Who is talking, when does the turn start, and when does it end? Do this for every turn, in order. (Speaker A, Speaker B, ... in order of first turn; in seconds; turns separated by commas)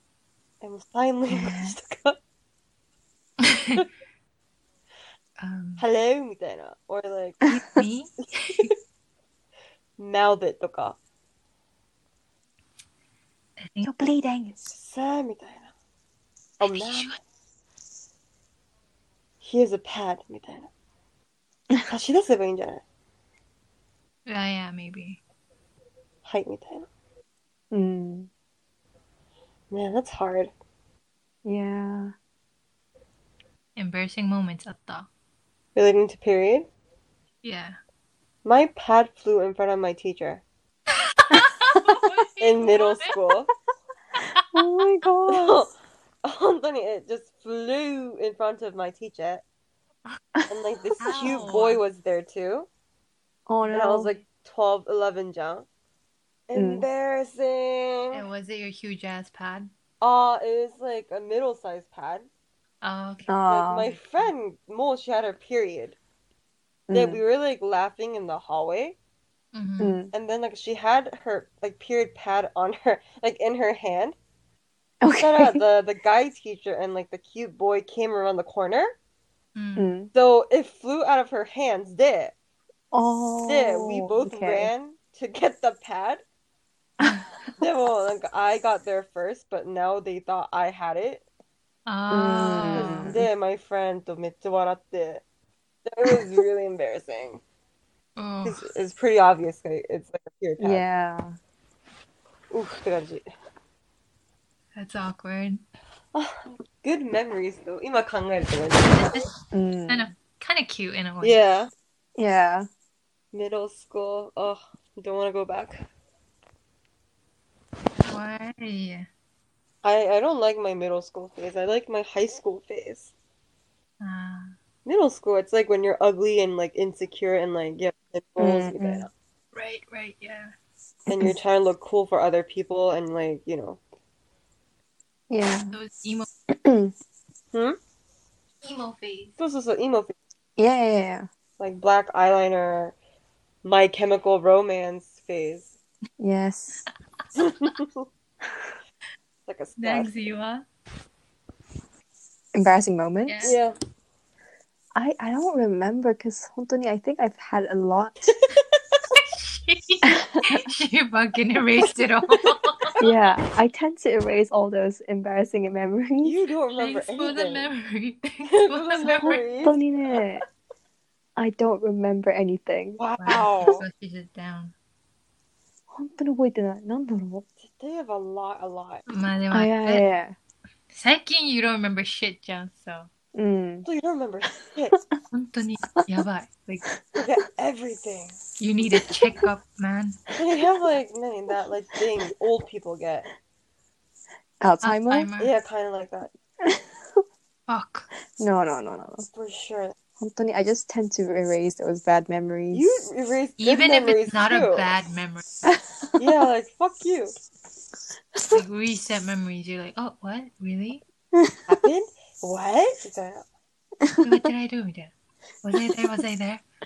Speaker A: 0.6-2.2, Speaker B: 1.3-1.7, Speaker C: 3.4-3.9, Speaker C: 5.4-5.8, Speaker A: 5.8-7.5, Speaker C: 7.4-8.7, Speaker A: 10.0-11.0, Speaker C: 13.6-13.9, Speaker B: 13.8-14.7, Speaker A: 14.7-15.7, Speaker A: 16.6-17.2, Speaker C: 16.6-17.2, Speaker A: 19.4-20.7, Speaker A: 21.9-22.8, Speaker C: 24.3-25.2, Speaker A: 26.2-26.9, Speaker B: 27.7-28.3, Speaker A: 29.7-30.5, Speaker B: 31.4-32.1, Speaker C: 33.8-35.1, Speaker A: 35.8-36.7, Speaker C: 37.4-37.8, Speaker A: 38.4-40.4, Speaker C: 41.0-43.2, Speaker A: 42.4-43.5, Speaker C: 44.2-44.5, Speaker B: 44.5-45.6, Speaker A: 45.3-45.7, Speaker A: 46.2-49.4, Speaker A: 50.5-52.7, Speaker C: 51.0-51.8, Speaker B: 53.5-54.1, Speaker A: 53.7-55.7, Speaker A: 56.5-58.2, Speaker B: 56.5-56.9, Speaker C: 58.1-59.7, Speaker A: 60.0-62.3, Speaker C: 62.8-63.4, Speaker B: 63.3-63.9, Speaker A: 63.5-66.0, Speaker B: 66.9-67.2, Speaker A: 66.9-69.0, Speaker C: 69.5-70.0, Speaker B: 69.8-70.1, Speaker A: 70.1-74.2, Speaker B: 75.0-75.6, Speaker A: 75.2-78.9, Speaker C: 79.5-79.9, Speaker B: 79.8-80.1, Speaker A: 80.1-82.3, Speaker B: 82.9-84.7, Speaker A: 83.5-86.2, Speaker A: 87.6-91.2, Speaker C: 91.9-93.2, Speaker B: 92.1-93.3, Speaker A: 92.7-95.2, Speaker A: 95.8-97.4, Speaker C: 98.2-98.6, Speaker A: 98.4-100.8, Speaker B: 100.6-101.4, Speaker A: 102.5-103.2, Speaker C: 104.8-105.6, Speaker A: 106.1-109.2, Speaker C: 108.9-109.3, Speaker B: 109.5-110.1, Speaker C: 109.9-111.4, Speaker A: 111.2-111.7, Speaker B: 112.2-112.7, Speaker A: 113.3-115.8, Speaker C: 118.0-119.1, Speaker A: 119.8-123.1, Speaker C: 124.0-124.5, Speaker A: 124.8-129.1, Speaker B: 128.4-129.1, Speaker C: 129.5-130.5, Speaker B: 131.1-131.3, Speaker A: 131.1-133.8, Speaker B: 135.3-135.8, Speaker C: 135.7-136.3, Speaker B: 136.5-136.9, Speaker C: 138.6-139.4, Speaker A: 139.4-140.1, Speaker B: 140.6-141.3, Speaker A: 141.6-143.0, Speaker A: 143.6-145.8, Speaker B: 146.2-146.8, Speaker A: 147.4-148.1, Speaker A: 149.5-150.3, Speaker C: 149.8-150.7, Speaker B: 152.5-153.5, Speaker C: 153.3-153.6, Speaker A: 153.4-153.8, Speaker B: 154.9-158.3, Speaker A: 158.3-159.0, Speaker C: 159.2-162.9, Speaker B: 160.1-160.5, Speaker B: 163.0-166.4, Speaker A: 166.2-167.7, Speaker C: 166.8-169.4, Speaker A: 168.4-170.2, Speaker B: 169.2-170.4, Speaker B: 171.4-173.0, Speaker A: 173.0-173.8, Speaker C: 173.2-174.7, Speaker B: 175.9-177.4, Speaker A: 177.6-179.1, Speaker C: 179.1-180.1, Speaker B: 179.5-180.3, Speaker C: 180.9-183.1, Speaker B: 183.3-183.9, Speaker A: 183.8-185.0, Speaker B: 184.9-185.2, Speaker C: 185.3-186.9, Speaker B: 186.9-187.2, Speaker A: 187.2-188.4, Speaker C: 188.6-190.2, Speaker B: 188.9-189.2, Speaker A: 190.4-193.3, Speaker B: 194.6-195.3, Speaker C: 194.8-195.5, Speaker A: 195.4-196.3, Speaker B: 196.6-197.2, Speaker C: 197.7-198.1, Speaker B: 198.4-199.3, Speaker A: 199.3-199.9, Speaker B: 200.2-202.8, Speaker A: 202.7-204.9, Speaker C: 203.6-205.4, Speaker B: 205.6-206.2, Speaker A: 206.2-207.3, Speaker B: 208.3-208.6, Speaker C: 208.5-211.0, Speaker B: 211.3-211.8, Speaker A: 211.7-213.4, Speaker B: 214.0-214.5, Speaker C: 214.2-216.6